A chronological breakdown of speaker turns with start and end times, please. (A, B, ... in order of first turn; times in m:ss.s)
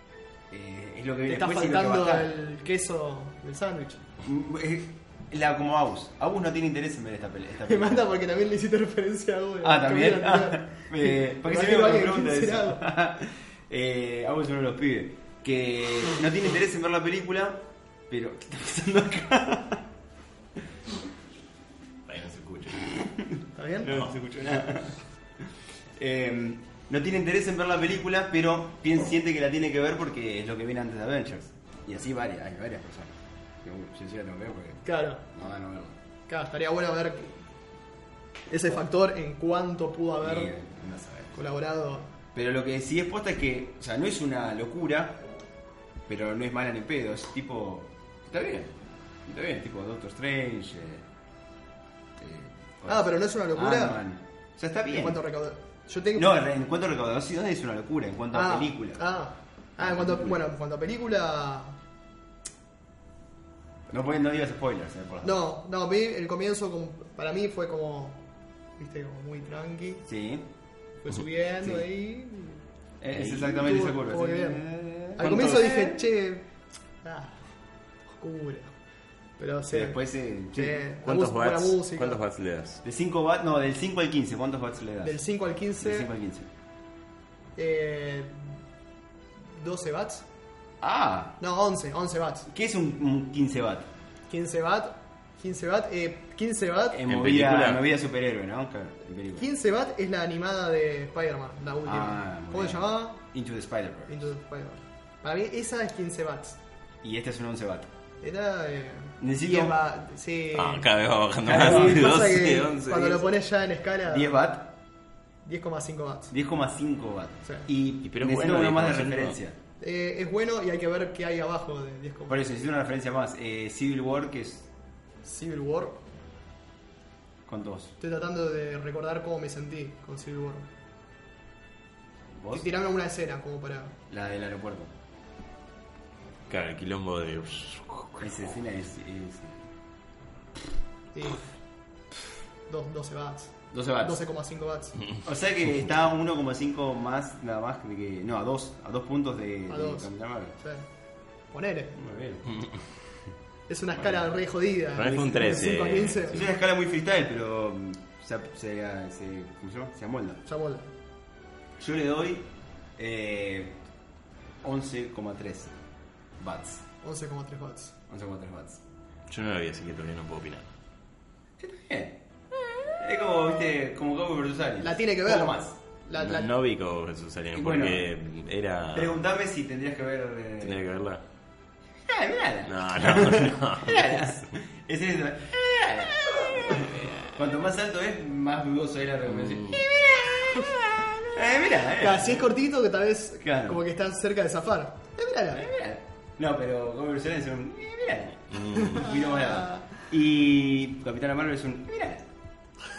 0:00.5-0:02.3 A
0:01.2-0:04.0 B
0:04.2-0:08.0 A
0:07.6-0:12.8 B
0:09.6-0:19.8 A
0:22.1-0:23.0 C
0:23.5-0:23.9 B
0:23.8-0:25.0 A
0:23.8-0:24.2 C
0:26.0-0:36.0 A
0:34.8-0:35.2 B
0:36.3-0:37.3 B
0:38.5-0:40.5 B
0:40.2-0:41.4 A
0:41.3-0:42.1 B
0:42.3-0:45.2 A
0:46.1-0:48.7 A
0:49.2-0:51.0 A
0:52.2-0:55.2 A
0:52.8-0:54.0 B
0:54.9-0:56.4 B
0:56.1-0:59.0 A
0:58.3-1:01.8 B
0:59.8-1:00.4 A
1:03.9-1:05.4 A
1:05.2-1:08.2 B
1:08.8-1:10.0 B
1:10.0-1:10.5 A
1:11.0-1:12.6 B
1:13.0-1:16.0 A
1:13.1-1:13.4 C
1:13.3-1:14.6 B
1:15.2-1:16.4 B
1:15.2-1:15.7 C
1:17.0-1:17.4 B
1:18.1-1:18.7 B
1:19.4-1:20.0 B
1:19.7-1:20.8 A
1:20.5-1:22.2 B
1:21.0-1:22.8 C
1:22.8-1:25.2 A
1:25.0-1:26.1 B
1:25.8-1:26.5 A
1:27.6-1:28.3 B
1:29.6-1:30.2 B
1:30.8-1:31.4 A
1:31.4-1:32.5 B
1:32.5-1:33.9 A
1:34.3-1:37.0 B
1:36.9-1:39.4 A
1:37.0-1:37.8 C
1:39.4-1:43.2 B
1:41.8-1:44.3 A
1:44.1-1:46.6 B
1:47.0-1:47.9 A
1:48.2-1:50.9 B
1:49.2-1:49.8 A
1:50.5-1:53.2 C
1:51.4-1:52.2 A
1:51.4-1:54.3 B
1:54.1-1:54.7 A
1:55.4-1:56.3 B
1:56.3-1:59.6 A
1:58.0-1:59.4 C
1:59.8-2:02.4 B
2:02.3-2:04.7 A
2:05.2-2:06.0 B
2:07.4-2:07.9 A
2:08.0-2:10.7 B
2:12.4-2:12.7 A
2:12.5-2:14.0 B
2:14.1-2:14.9 A
2:16.5-2:18.4 C
2:18.2-2:19.6 A
2:21.1-2:21.4 B
2:22.7-2:25.0 B
2:23.7-2:24.2 A
2:25.2-2:30.5 A
2:29.7-2:30.8 B
2:31.5-2:32.0 B
2:31.9-2:32.6 A
2:33.7-2:36.4 B
2:33.9-2:34.2 A
2:34.9-2:36.4 C
2:36.3-2:40.4 A
2:40.4-2:40.9 B
2:41.8-2:43.8 A
2:44.6-2:45.7 A
2:46.4-2:46.8 A
2:47.0-2:47.9 B
2:48.1-2:48.8 A
2:49.3-2:50.6 C
2:51.6-2:52.2 A
2:52.9-2:55.8 A
2:54.8-2:56.5 B
2:56.2-2:59.2 C
2:57.5-2:58.1 A
2:58.9-3:00.8 A
3:00.6-3:01.2 C
3:02.1-3:12.5 A
3:02.6-3:04.4 C
3:09.3-3:09.8 C
3:12.0-3:15.7 B
3:13.4-3:13.8 A
3:15.5-3:22.2 A
3:18.5-3:19.2 C
3:19.6-3:19.8 B